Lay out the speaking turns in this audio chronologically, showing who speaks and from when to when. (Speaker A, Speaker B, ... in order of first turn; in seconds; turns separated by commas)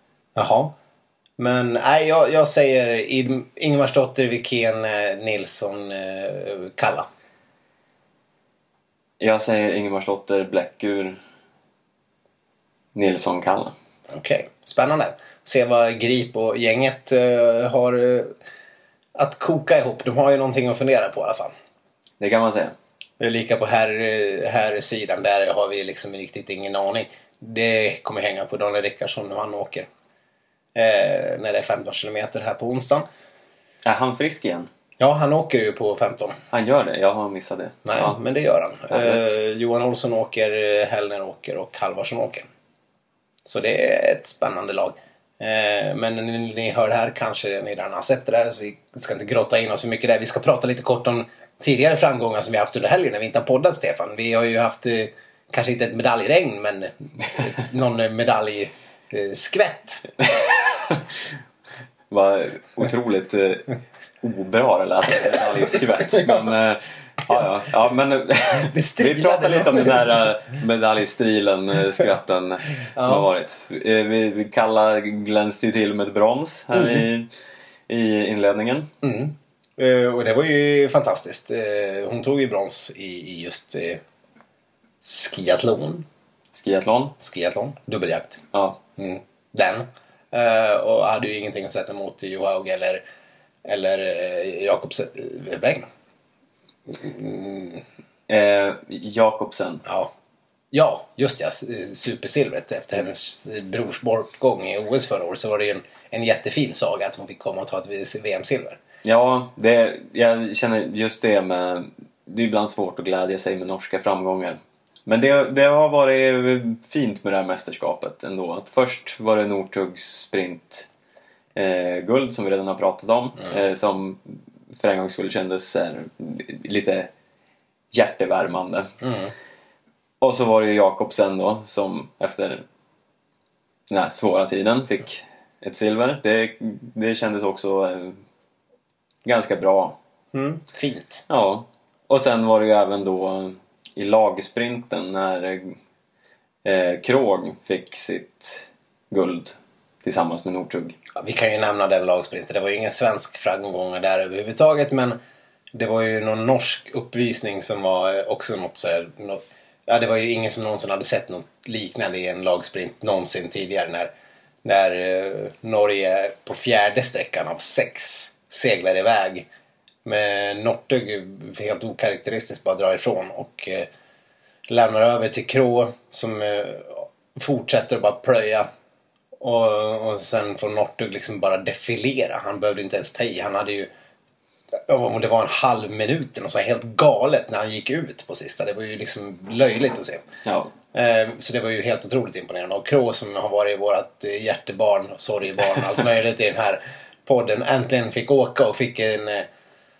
Speaker A: 0.3-0.7, Speaker A: 1.4-7.1, Speaker B: 9.2-11.2, Speaker B: 12.9-13.7, Speaker A: 14.1-18.4, Speaker A: 19.1-21.5, Speaker B: 22.2-22.7, Speaker A: 23.2-29.9, Speaker A: 30.7-33.0, Speaker B: 33.8-34.7, Speaker A: 35.0-36.4, Speaker B: 36.5-38.2, Speaker A: 37.8-42.5, Speaker B: 38.9-39.3, Speaker A: 43.4-60.1, Speaker B: 60.2-61.0, Speaker B: 62.1-63.7, Speaker B: 64.2-77.3, Speaker A: 66.1-66.4, Speaker A: 68.5-70.3, Speaker A: 73.0-73.3, Speaker A: 76.7-77.0, Speaker B: 77.9-78.9, Speaker A: 79.0-84.0, Speaker A: 85.0-86.0, Speaker B: 86.5-87.1, Speaker A: 87.2-88.4, Speaker B: 88.5-88.8, Speaker A: 89.0-93.0, Speaker A: 93.7-95.9, Speaker A: 96.9-97.8, Speaker B: 98.3-99.8, Speaker A: 99.8-100.1, Speaker A: 100.7-108.8, Speaker B: 109.0-120.9, Speaker B: 121.5-127.1, Speaker B: 127.9-128.9, Speaker A: 129.0-129.3, Speaker B: 130.2-132.6, Speaker B: 133.9-138.2, Speaker B: 139.2-139.9, Speaker A: 140.3-141.2, Speaker B: 141.3-145.8, Speaker B: 146.6-150.9, Speaker A: 151.2-155.2, Speaker A: 155.7-164.1, Speaker A: 164.6-169.5, Speaker A: 170.0-173.9, Speaker A: 174.7-178.7, Speaker A: 179.4-183.9, Speaker A: 184.9-190.2, Speaker B: 190.4-190.7, Speaker A: 190.9-199.5